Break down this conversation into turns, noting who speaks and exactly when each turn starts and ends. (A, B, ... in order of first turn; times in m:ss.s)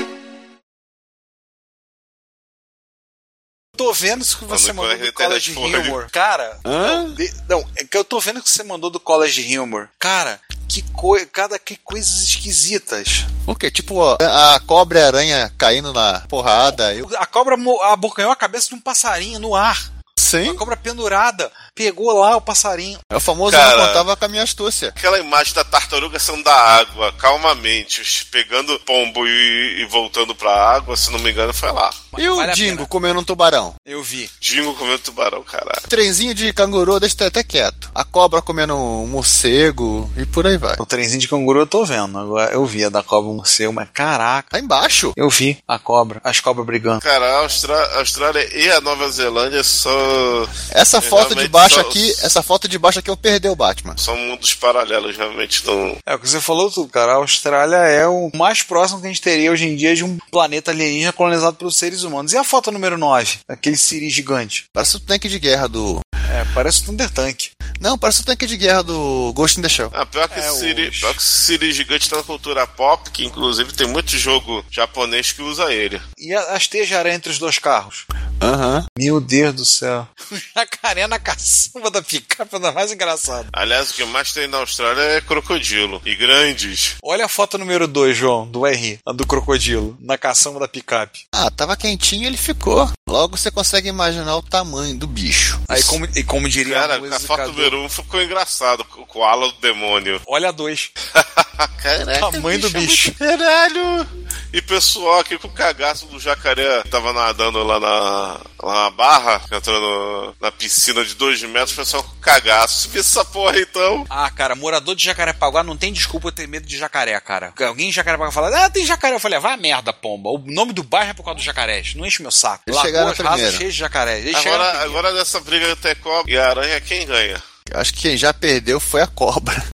0:03.7-0:13.3 A
0:04.5-0:06.0 B
0:06.6-0:07.2 C
0:13.5-0:17.0 C
0:16.7-0:19.8 A
0:20.2-0:20.6 C
0:20.4-0:23.0 A
0:23.1-0:25.0 C
0:23.5-0:24.0 B
0:25.0-0:32.0 B
0:32.1-0:32.9 A
0:32.2-0:33.8 C
0:33.8-0:34.3 A
0:34.4-0:35.8 B
0:35.9-0:40.8 C
0:40.8-0:44.5 A
0:44.5-0:45.1 C
0:45.2-0:47.0 A
0:47.0-0:52.2 B
0:50.7-0:54.0 C
0:54.0-0:56.0 B
0:56.1-1:04.6 A
1:04.7-1:06.0 C
1:06.3-1:07.5 A
1:07.8-1:09.9 C
1:09.9-1:16.0 B
1:10.3-1:11.2 A
1:16.2-1:18.0 A
1:18.4-1:18.8 C
1:19.0-1:23.5 A
1:23.5-1:27.0 B
1:27.0-1:31.2 A
1:31.3-1:36.0 C
1:35.7-1:37.8 A
1:36.6-1:40.2 B
1:40.3-1:40.9 A
1:41.1-1:54.1 B
1:42.1-1:43.2 A
1:54.1-2:05.0 A
2:02.7-2:03.6 C
2:04.3-2:07.4 B
2:07.7-2:09.6 C